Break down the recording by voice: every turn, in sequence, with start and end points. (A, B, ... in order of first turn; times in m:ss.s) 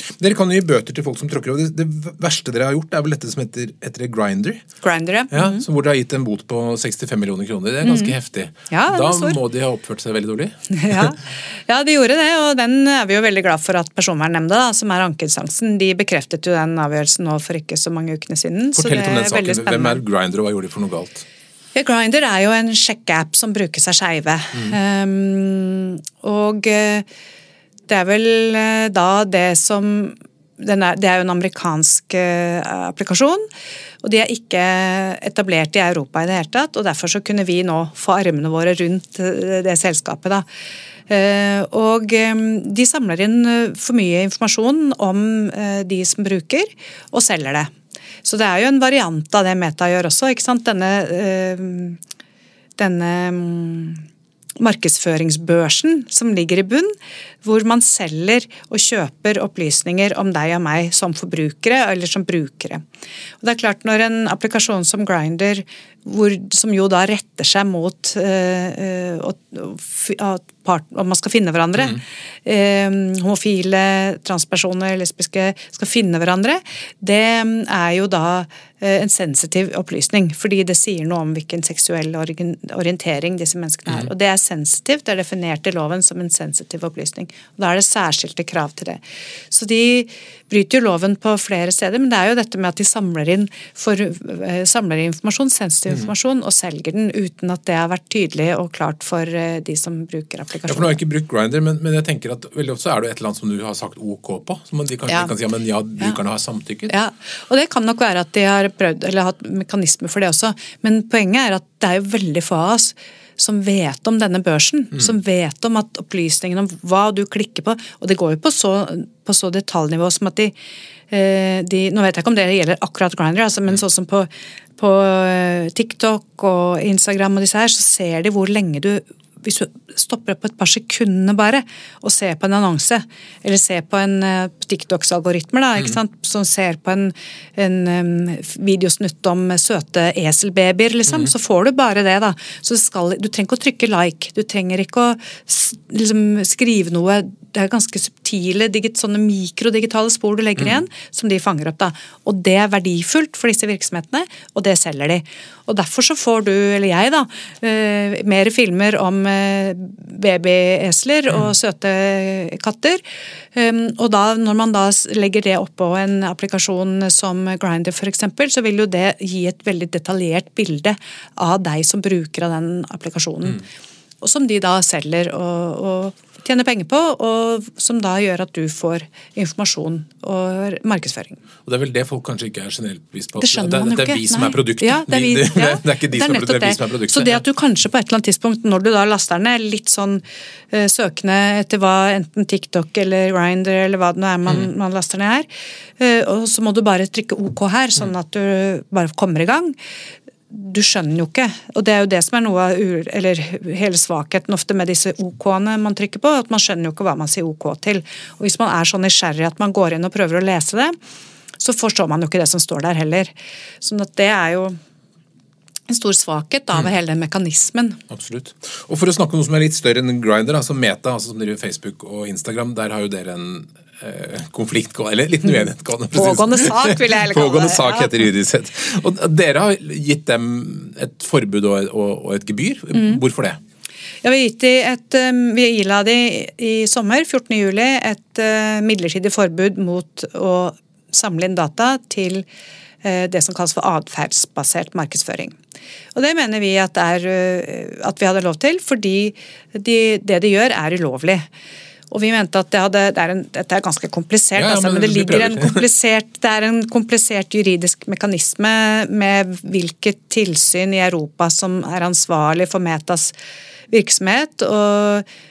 0:00.2-0:04.6 A
0:04.8-0:05.6 B
0:05.3-0:11.1 A
0:07.8-0:08.1 B
0:08.7-0:09.4 B
0:10.7-0:20.0 B
0:18.7-0:21.2 A
0:21.7-0:27.0 B
0:27.9-0:33.5 B
0:34.0-0:40.4 B
0:41.1-0:47.7 B
0:48.2-0:52.0 B
0:52.8-0:54.0 B
0:54.6-1:02.8 B
1:03.4-1:41.0 B
1:40.7-1:46.9 A
1:46.9-2:00.5 B
2:01.1-2:43.0 B
2:43.5-2:53.6 B
2:54.2-3:01.4 B
3:01.6-3:07.4 A
3:03.4-3:15.5 B
3:16.0-3:19.8 B
3:20.5-3:30.9 B
3:31.6-3:34.8 B
3:35.9-3:38.0 B
3:38.1-3:53.6 A
3:46.1-3:48.1 B
3:54.2-4:02.4 B
4:03.0-4:05.6 B
4:06.1-4:11.5 B
4:12.1-4:23.3 B
4:14.6-4:15.8 A
4:23.9-4:25.2 B